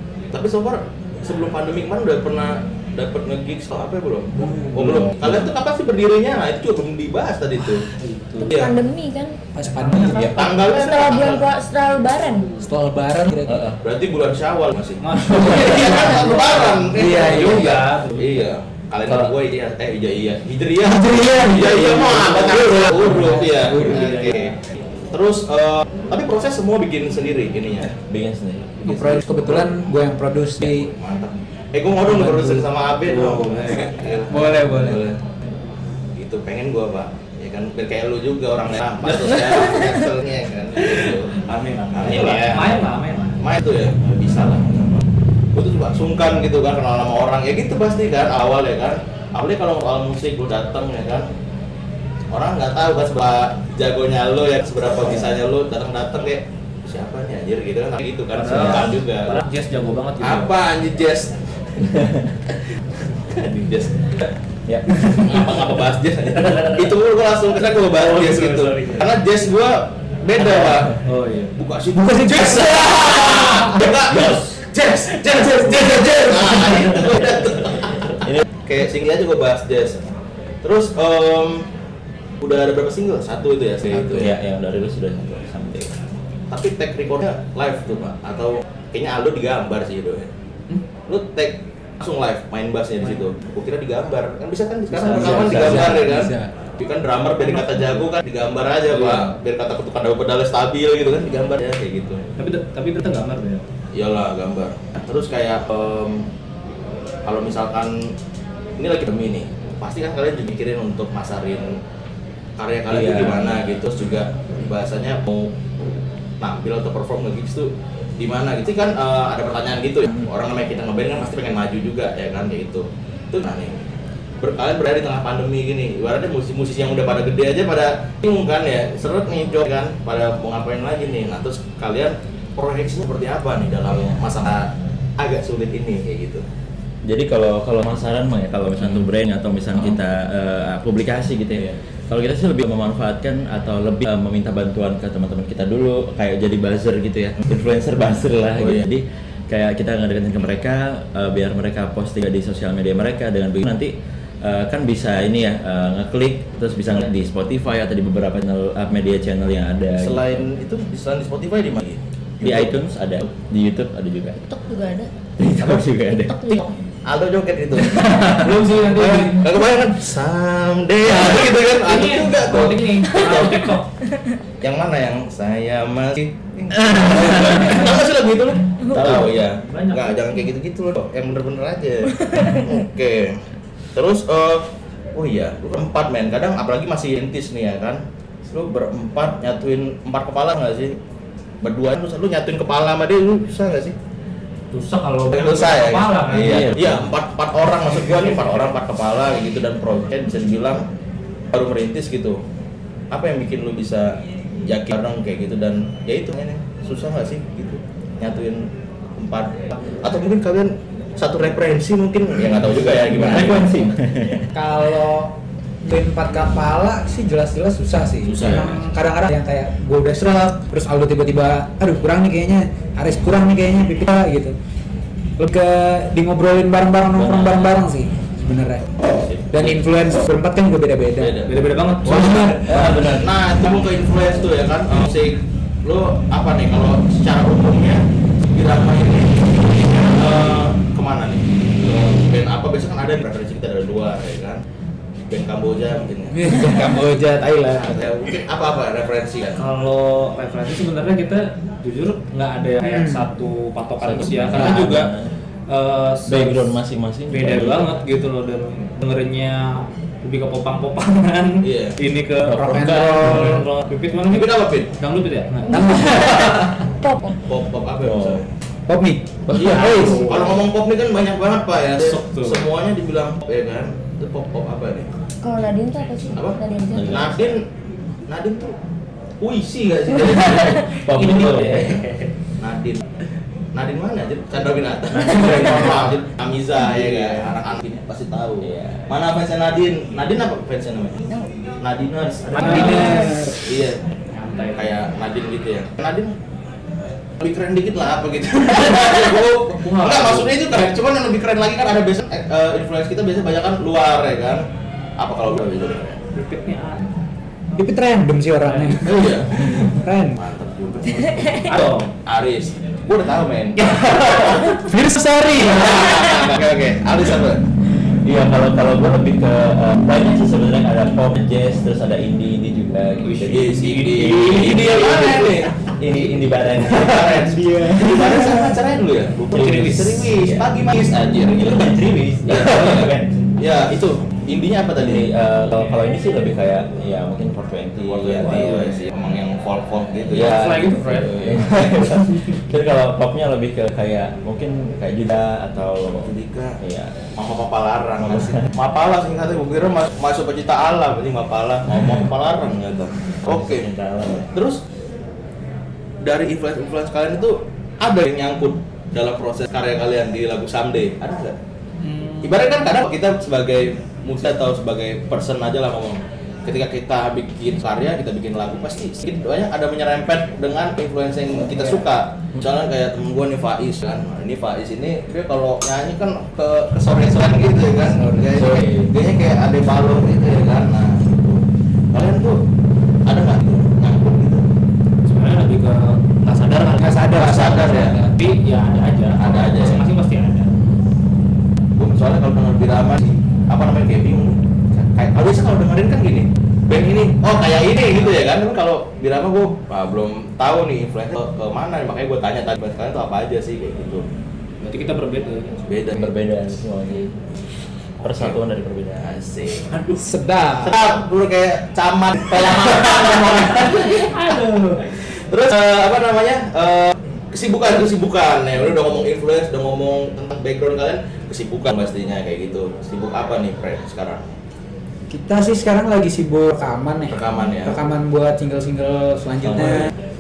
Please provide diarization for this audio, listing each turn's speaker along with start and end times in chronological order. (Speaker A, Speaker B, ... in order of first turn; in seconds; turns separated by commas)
Speaker A: 0.3-7.9, Speaker B: 4.5-5.0, Speaker C: 5.2-5.5, Speaker D: 8.0-8.6, Speaker A: 8.4-8.8, Speaker E: 8.5-9.4, Speaker B: 9.6-10.6, Speaker A: 9.9-11.5, Speaker E: 10.1-12.5, Speaker B: 12.6-13.7, Speaker C: 13.5-13.8, Speaker A: 13.8-24.5, Speaker D: 15.0-18.5, Speaker B: 15.5-17.8, Speaker B: 20.8-24.3, Speaker D: 23.8-24.6, Speaker A: 25.1-27.9, Speaker C: 27.9-29.1, Speaker B: 28.8-30.9, Speaker A: 28.9-29.9, Speaker A: 30.6-35.2, Speaker B: 32.1-35.0, Speaker D: 33.2-34.2, Speaker A: 36.2-42.8, Speaker D: 39.0-39.9, Speaker D: 40.8-43.4, Speaker A: 43.4-45.0, Speaker A: 45.5-51.3, Speaker A: 52.3-59.4, Speaker D: 58.4-60.5, Speaker C: 58.5-58.9, Speaker A: 60.2-62.0, Speaker C: 61.9-62.2, Speaker A: 63.3-64.3, Speaker A: 65.1-71.0, Speaker D: 66.4-66.8, Speaker D: 67.9-69.1, Speaker D: 70.4-71.5, Speaker A: 71.6-80.0, Speaker B: 72.0-73.0, Speaker B: 73.5-73.8, Speaker C: 74.1-74.5, Speaker A: 80.6-81.7, Speaker A: 82.4-84.3, Speaker C: 83.9-85.9, Speaker A: 86.5-90.3, Speaker A: 91.1-102.2, Speaker B: 95.0-96.5, Speaker C: 95.0-96.1, Speaker D: 97.5-98.0, Speaker D: 98.9-99.3, Speaker D: 102.4-103.6, Speaker A: 104.0-106.3, Speaker A: 107.2-108.1, Speaker A: 108.8-111.8, Speaker A: 112.6-115.5, Speaker C: 112.9-113.6, Speaker A: 116.4-123.8, Speaker A: 124.4-136.4, Speaker C: 137.1-160.4, Speaker A: 148.6-148.8, Speaker A: 160.0-162.8, Speaker C: 162.4-164.4, Speaker E: 164.5-165.1, Speaker C: 165.4-166.6, Speaker E: 166.3-166.8, Speaker A: 167.1-173.7, Speaker C: 167.8-168.5, Speaker D: 168.3-169.4, Speaker D: 171.1-173.9, Speaker A: 174.6-183.4, Speaker C: 178.9-179.3, Speaker D: 179.4-180.2, Speaker E: 182.2-182.6, Speaker A: 183.9-191.0, Speaker A: 191.6-194.0, Speaker D: 194.7-196.9, Speaker A: 195.3-200.8, Speaker C: 196.3-197.1, Speaker A: 201.5-202.4, Speaker A: 203.1-213.9, Speaker C: 212.5-214.4, Speaker B: 213.1-213.8, Speaker B: 214.5-224.6, Speaker C: 218.2-218.8, Speaker B: 225.4-228.9, Speaker C: 227.1-227.8, Speaker B: 229.5-231.4, Speaker A: 231.2-231.5, Speaker D: 231.5-232.6, Speaker B: 232.1-232.9, Speaker A: 232.1-244.6, Speaker C: 232.6-233.4, Speaker A: 245.3-249.7, Speaker B: 246.3-247.8, Speaker D: 249.6-255.1, Speaker B: 252.8-253.3, Speaker C: 254.0-255.3, Speaker D: 255.7-256.8, Speaker C: 256.3-257.9, Speaker D: 257.3-266.3, Speaker A: 261.6-261.9, Speaker C: 262.4-263.0, Speaker B: 262.5-263.6, Speaker A: 264.3-264.9, Speaker E: 265.7-266.3, Speaker B: 265.7-266.8, Speaker A: 266.3-266.7, Speaker E: 267.0-267.4, Speaker A: 267.4-268.5, Speaker C: 268.1-268.4, Speaker B: 268.9-270.2, Speaker D: 269.5-270.6, Speaker A: 269.6-275.1, Speaker D: 272.0-272.7, Speaker E: 275.4-277.5, Speaker A: 276.4-277.6, Speaker C: 276.9-277.4, Speaker A: 278.3-278.7, Speaker A: 279.4-281.9, Speaker C: 280.2-282.0, Speaker D: 281.1-282.3, Speaker A: 282.6-283.0, Speaker A: 283.8-291.2, Speaker D: 285.1-286.1, Speaker C: 288.6-289.1, Speaker A: 291.8-294.0, Speaker D: 292.6-293.3, Speaker B: 292.6-293.6, Speaker E: 292.9-293.3, Speaker D: 294.4-294.9, Speaker A: 294.8-296.4, Speaker A: 297.4-304.6, Speaker D: 299.8-301.0, Speaker A: 305.2-306.2, Speaker D: 306.3-307.1, Speaker B: 307.8-310.4, Speaker D: 308.6-309.0, Speaker A: 309.0-309.7, Speaker A: 310.3-314.7, Speaker E: 311.1-311.7, Speaker D: 311.7-312.1, Speaker D: 313.9-314.8, Speaker B: 314.0-316.4, Speaker A: 315.6-317.7, Speaker C: 318.2-328.8, Speaker D: 323.2-325.3, Speaker A: 323.4-325.7, Speaker A: 326.7-335.3, Speaker D: 329.5-330.3, Speaker C: 329.5-330.7, Speaker C: 331.5-333.5, Speaker C: 335.0-338.9, Speaker A: 338.1-340.6, Speaker D: 338.4-338.9, Speaker C: 340.3-346.3, Speaker D: 340.4-342.6, Speaker A: 341.3-342.1, Speaker A: 346.2-346.8, Speaker C: 346.8-347.1, Speaker A: 347.4-353.9, Speaker C: 348.2-348.6, Speaker C: 351.9-352.2, Speaker C: 353.4-354.5, Speaker A: 354.5-354.8, Speaker A: 356.2-361.6, Speaker D: 362.0-362.5, Speaker A: 362.4-382.6, Speaker B: 378.0-378.6, Speaker C: 378.5-379.1, Speaker A: 383.3-384.6, Speaker D: 385.3-390.8, Speaker B: 387.0-388.3, Speaker A: 387.3-388.2, Speaker A: 389.4-390.1, Speaker A: 392.0-404.2, Speaker D: 404.8-405.9, Speaker A: 405.9-406.3, Speaker C: 406.1-407.3, Speaker C: 408.2-409.4, Speaker A: 409.2-409.9, Speaker D: 409.9-410.2, Speaker B: 410.2-411.0, Speaker A: 410.7-424.5, Speaker B: 425.3-430.1, Speaker A: 427.3-428.0, Speaker C: 429.6-430.1